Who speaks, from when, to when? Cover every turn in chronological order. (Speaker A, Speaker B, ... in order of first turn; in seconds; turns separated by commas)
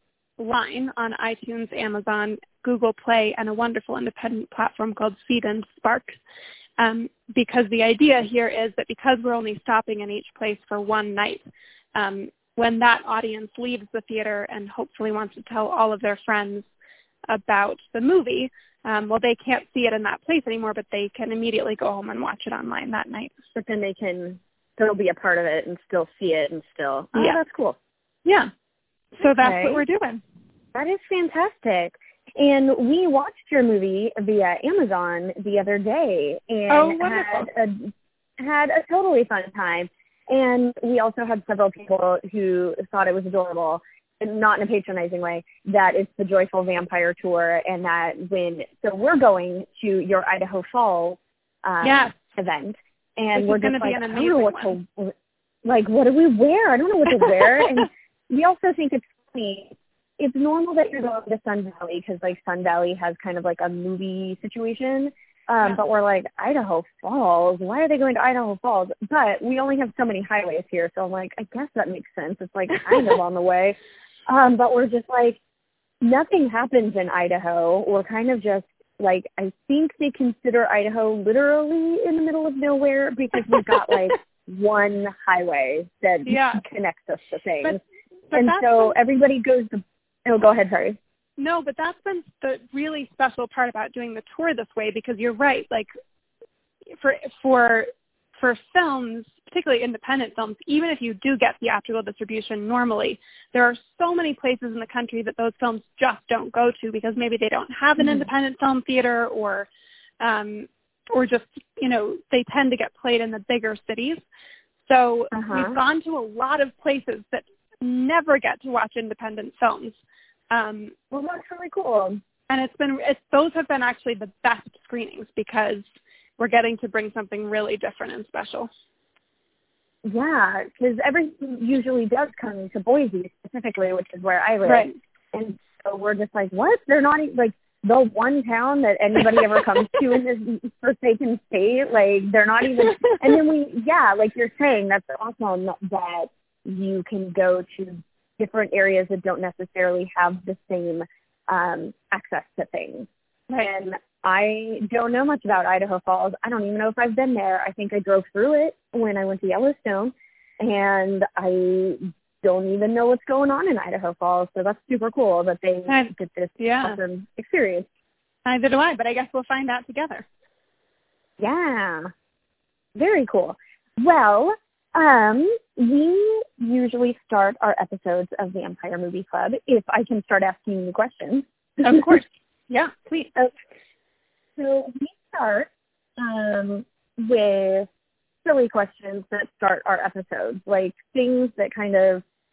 Speaker A: 0.4-6.2, Speaker A: 6.8-11.4, Speaker A: 11.9-16.7, Speaker A: 17.3-23.3, Speaker B: 23.6-27.8, Speaker A: 28.2-28.5, Speaker A: 29.2-30.2, Speaker B: 29.2-29.8, Speaker B: 30.7-73.8, Speaker A: 36.7-37.5, Speaker A: 51.8-52.1, Speaker A: 53.3-54.8, Speaker B: 74.3-75.4, Speaker B: 76.0-87.8, Speaker A: 86.2-86.6, Speaker A: 88.3-89.0, Speaker B: 88.3-91.0, Speaker A: 91.4-95.9, Speaker A: 97.0-109.7, Speaker B: 108.0-108.3, Speaker A: 110.2-114.2, Speaker A: 114.9-120.0, Speaker B: 115.3-115.8, Speaker A: 120.5-120.9, Speaker B: 121.1-122.2, Speaker A: 122.5-125.9, Speaker A: 126.4-128.7, Speaker B: 130.0-153.1, Speaker A: 134.7-135.0, Speaker B: 153.6-167.9, Speaker A: 165.9-167.0, Speaker A: 168.5-170.2, Speaker B: 171.4-172.1, Speaker B: 172.9-182.1, Speaker A: 181.8-183.3, Speaker B: 184.6-187.9, Speaker B: 188.4-192.2